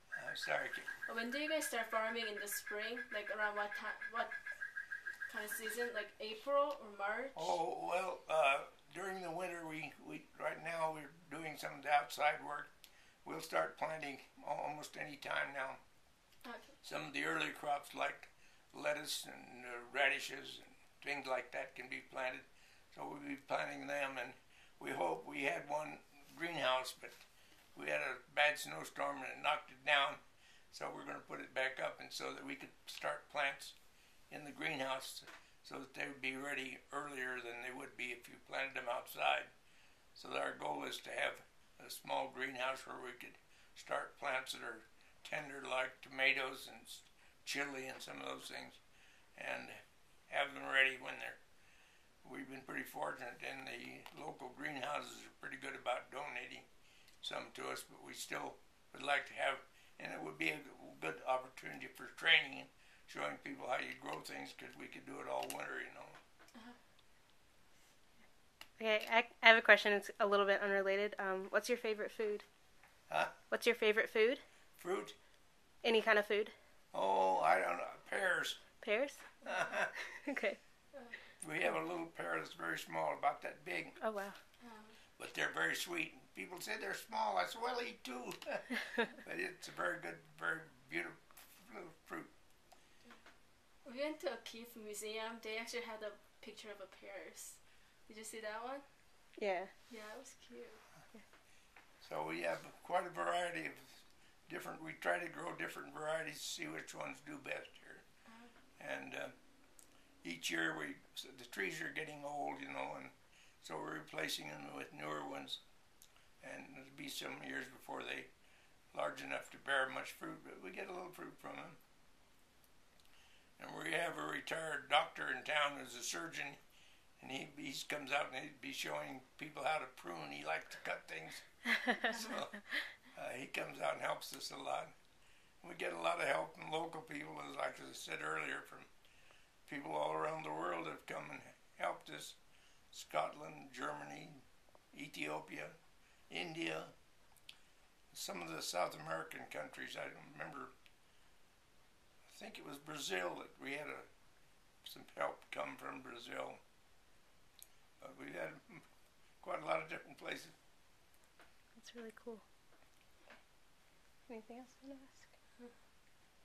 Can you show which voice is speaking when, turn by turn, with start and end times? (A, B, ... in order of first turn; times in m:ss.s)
0:00.1-0:00.9 A
0:01.0-0:04.6 B
0:05.2-0:07.6 B
0:07.4-0:12.7 A
0:13.2-0:15.8 A
0:16.4-0:16.8 B
0:16.8-0:27.2 A
0:27.8-0:33.8 A
0:34.3-0:39.5 A
0:40.1-0:48.8 A
0:49.4-0:51.4 A
0:52.2-0:56.7 A
0:57.2-1:06.2 A
1:08.8-1:12.4 C
1:13.1-1:13.3 A
1:13.5-1:14.4 C
1:14.8-1:15.2 A
1:15.8-1:16.5 C
1:16.9-1:18.6 A
1:18.8-1:19.3 C
1:19.4-1:19.8 B
1:19.4-1:19.9 A
1:20.1-1:20.6 C
1:20.9-1:21.2 B
1:21.4-1:24.0 A
1:24.0-1:24.4 C
1:24.6-1:25.0 B
1:25.2-1:32.3 A
1:33.8-1:38.9 B
1:39.4-1:39.7 C
1:39.9-1:40.8 B
1:42.0-1:48.0 A
1:48.3-1:48.5 B
1:48.8-1:49.3 A
1:50.2-1:55.6 A
1:56.4-1:58.3 A
1:58.9-2:01.8 A
2:03.6-2:06.6 A
2:07.2-2:14.9 A
2:12.0-2:12.4 B
2:15.6-2:18.9 A
2:19.7-2:22.4 A
2:22.9-2:25.8 A
2:26.3-2:26.9 A
2:28.1-2:30.7 A
2:32.3-2:34.1 A
2:34.8-2:36.6 A
2:38.0-2:38.8 A
2:39.4-2:40.6 A
2:41.8-2:42.4 C
2:44.3-2:45.3 C